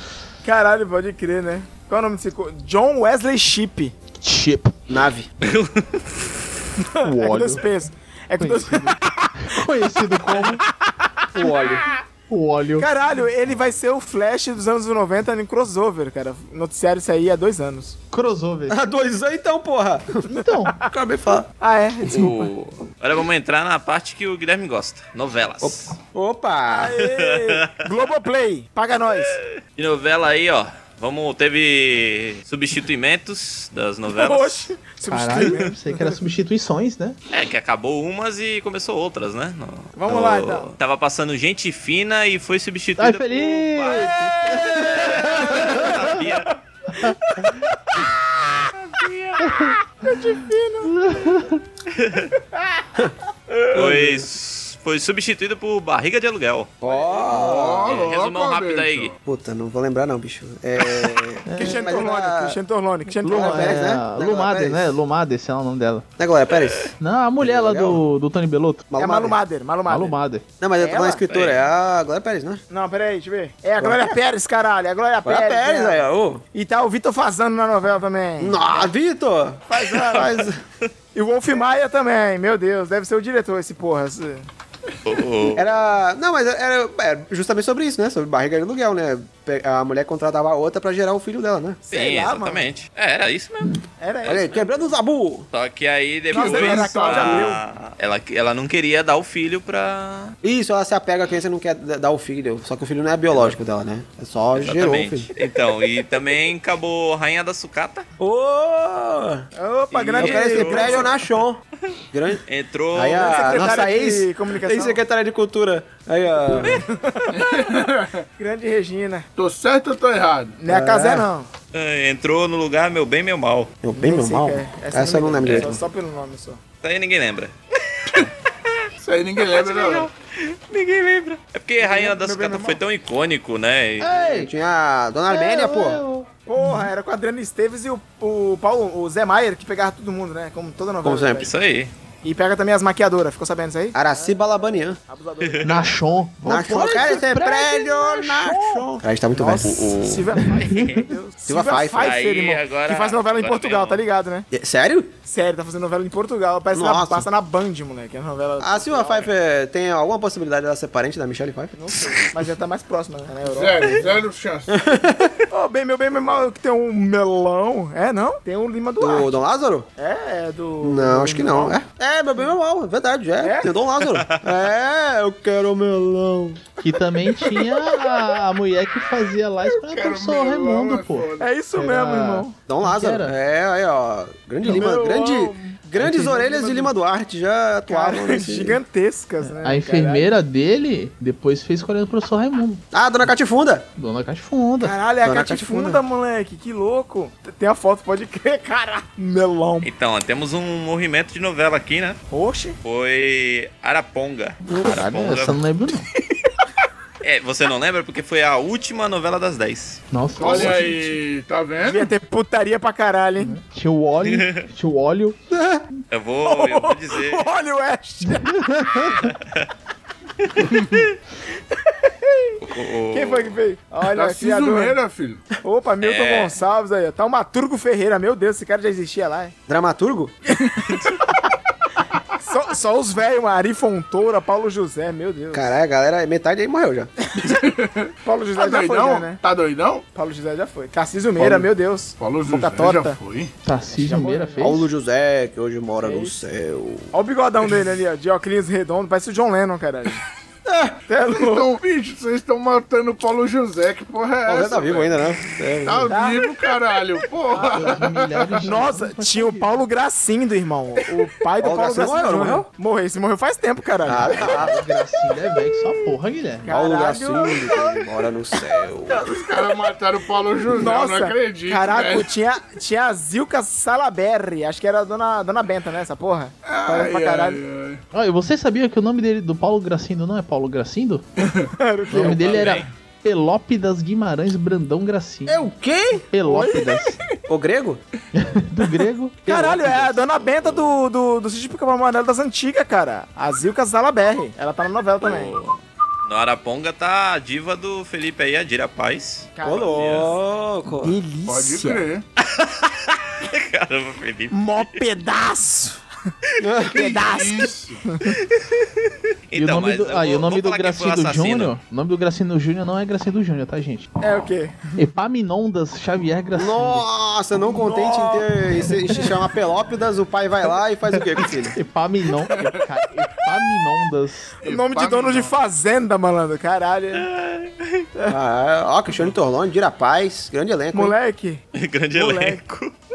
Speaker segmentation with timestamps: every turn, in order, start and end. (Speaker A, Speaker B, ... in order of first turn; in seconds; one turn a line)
Speaker A: 0.4-3.9
Speaker B: 4.2-4.8
Speaker C: 4.9-5.3
Speaker D: 5.4-6.4
Speaker A: 6.8-9.6
Speaker B: 7.0-7.6
Speaker B: 8.4-10.6
Speaker A: 10.3-12.0
Speaker C: 11.3-11.9
Speaker B: 12.3-12.9
Speaker A: 12.8-18.0
Speaker B: 18.1-18.8
Speaker C: 18.7-20.3
Speaker B: 20.3-20.8
Speaker A: 20.4-20.8
Speaker C: 20.8-21.5
Speaker A: 21.6-22.5
Speaker D: 22.1-25.8
Speaker C: 25.6-27.0
Speaker A: 26.7-29.4
Speaker D: 27.0-27.7
Speaker D: 29.8-34.7
Speaker A: 34.1-36.2
Speaker B: 35.1-37.2
Speaker D: 37.3-46.6
Speaker A: 40.0-40.7
Speaker B: 43.0-46.2
Speaker A: 44.5-45.9
Speaker B: 47.0-47.5
Speaker A: 47.1-51.1
Speaker B: 49.4-49.8
Speaker B: 50.9-51.6
Speaker D: 51.9-52.3
Speaker D: 53.7-56.8
Speaker C: 53.7-54.3
Speaker C: 56.8-58.1
Speaker E: 57.3-59.1
Speaker D: 57.9-59.1
Speaker C: 59.2-62.6
Speaker D: 60.8-61.1
Speaker B: 61.5-61.9
Speaker A: 61.6-64.0
Speaker B: 63.1-66.0
Speaker C: 63.3-65.0
Speaker C: 66.2-68.0
Speaker D: 66.5-66.9
Speaker B: 67.0-68.8
Speaker C: 68.9-69.4
Speaker A: 69.0-70.2
Speaker B: 69.9-70.4
Speaker C: 70.6-72.6
Speaker A: 70.8-71.2
Speaker D: 71.3-71.7
Speaker A: 72.7-76.0
Speaker C: 73.8-74.2
Speaker C: 75.2-76.4
Speaker A: 76.5-78.9
Speaker C: 78.4-80.6
Speaker A: 79.7-80.5
Speaker D: 80.1-80.9
Speaker A: 81.2-84.5
Speaker D: 85.0-85.7
Speaker C: 85.5-91.8
Speaker A: 91.9-92.7
Speaker D: 91.9-94.4
Speaker A: 94.0-94.7
Speaker C: 94.2-95.5
Speaker D: 95.5-100.3
Speaker E: 96.3-97.5
Speaker A: 96.3-97.6
Speaker C: 100.4-105.3
Speaker D: 104.6-108.0
Speaker C: 108.2-116.8
Speaker A: 109.6-111.1
Speaker D: 109.9-111.1
Speaker D: 112.5-113.7
Speaker A: 113.1-115.0
Speaker A: 116.5-117.7
Speaker E: 117.3-118.2
Speaker A: 118.4-119.3
Speaker E: 119.4-120.6
Speaker A: 120.6-121.5
Speaker C: 120.7-121.3
Speaker D: 121.7-123.7
Speaker C: 123.8-125.8
Speaker A: 124.0-126.6
Speaker D: 125.4-125.7
Speaker D: 126.8-128.3
Speaker E: 129.0-130.1
Speaker D: 129.5-134.1
Speaker A: 131.8-132.8
Speaker B: 134.0-134.5
Speaker C: 134.0-136.0
Speaker B: 135.3-136.9
Speaker A: 136.5-141.5
Speaker C: 141.0-141.5
Speaker D: 141.4-141.9
Speaker A: 142.2-145.9
Speaker C: 143.9-145.0
Speaker B: 145.6-148.8
Speaker C: 146.4-149.9
Speaker A: 146.9-147.2
Speaker A: 148.5-148.8
Speaker A: 149.3-154.5
Speaker D: 149.6-151.1
Speaker B: 150.4-151.0
Speaker C: 151.5-152.2
Speaker D: 151.8-154.0
Speaker C: 154.5-155.2
Speaker A: 155.3-159.3
Speaker C: 156.7-157.3
Speaker C: 158.6-162.3
Speaker A: 161.8-164.2
Speaker E: 163.5-164.8
Speaker C: 164.7-165.4
Speaker A: 165.5-169.3
Speaker C: 169.0-169.9
Speaker A: 170.0-171.8
Speaker C: 170.8-176.6
Speaker A: 173.4-173.7
Speaker D: 174.1-174.4
Speaker B: 176.8-183.3
Speaker A: 177.4-178.2
Speaker E: 179.9-181.5
Speaker A: 181.4-182.6
Speaker C: 182.7-188.8
Speaker A: 184.6-186.9
Speaker B: 186.0-186.3
Speaker A: 187.9-190.3
Speaker B: 189.5-192.8
Speaker C: 192.9-193.9
Speaker B: 194.0-194.9
Speaker A: 194.8-199.9
Speaker C: 195.2-196.0
Speaker D: 199.8-202.2
Speaker A: 202.3-202.8
Speaker D: 202.8-205.6
Speaker C: 204.7-205.1
Speaker B: 204.8-206.1
Speaker D: 207.2-210.0
Speaker B: 210.1-211.2
Speaker E: 210.4-212.1
Speaker A: 211.8-213.5
Speaker B: 213.4-215.4
Speaker D: 214.2-214.6
Speaker D: 216.1-217.5
Speaker A: 216.4-219.1
Speaker B: 218.6-219.1
Speaker D: 219.3-219.7
Speaker D: 220.4-221.1
Speaker A: 221.7-225.0
Speaker D: 222.6-223.6
Speaker E: 224.0-225.5
Speaker A: 225.5-229.6
Speaker D: 226.0-226.6
Speaker C: 229.7-230.4
Speaker A: 230.7-231.4
Speaker A: 232.4-235.7
Speaker C: 235.5-237.1
Speaker E: 237.5-240.0
Speaker A: 238.2-239.4
Speaker A: 240.1-243.2
Speaker C: 241.4-241.7
Speaker E: 242.2-243.5
Speaker B: 243.6-244.9
Speaker A: 244.0-244.7
Speaker C: 244.6-247.2
Speaker A: 246.0-246.3
Speaker A: 247.1-250.2
Speaker C: 250.7-251.0
Speaker A: 251.1-251.7
Speaker E: 251.3-255.2
Speaker C: 254.5-256.2
Speaker E: 255.8-258.7
Speaker A: 256.1-256.6
Speaker A: 257.5-257.9
Speaker B: 257.7-259.8
Speaker A: 258.6-264.7
Speaker C: 261.6-262.7
Speaker C: 264.1-264.8
Speaker B: 264.3-266.7
Speaker A: 266.6-268.0
Speaker C: 266.7-269.2
Speaker E: 269.1-272.3
Speaker A: 270.7-277.6
Speaker E: 276.6-278.0
Speaker B: 278.1-281.2
Speaker E: 281.4-281.7
Speaker A: 281.7-282.7
Speaker B: 282.1-285.7
Speaker D: 282.5-282.9
Speaker C: 285.5-286.2
Speaker B: 286.3-287.2
Speaker A: 286.4-286.9
Speaker C: 287.5-288.0
Speaker B: 288.4-289.4
Speaker A: 289.5-295.5
Speaker C: 289.5-290.2
Speaker D: 290.5-290.9
Speaker D: 295.2-300.4
Speaker A: 299.6-300.4
Speaker C: 299.6-301.2
Speaker A: 301.0-302.1
Speaker E: 301.5-302.2
Speaker D: 302.4-305.0
Speaker A: 304.5-306.0
Speaker C: 306.6-307.2
Speaker A: 306.8-308.3
Speaker E: 306.9-308.0
Speaker D: 308.6-308.9
Speaker D: 309.5-311.7
Speaker B: 309.5-314.1
Speaker A: 314.2-314.8
Speaker B: 315.0-317.1
Speaker C: 316.6-321.8
Speaker B: 321.7-324.5
Speaker E: 324.6-325.6
Speaker A: 324.6-327.3
Speaker D: 327.1-328.1
Speaker C: 328.3-331.2
Speaker A: 330.9-331.6
Speaker D: 331.7-332.9
Speaker A: 332.1-332.6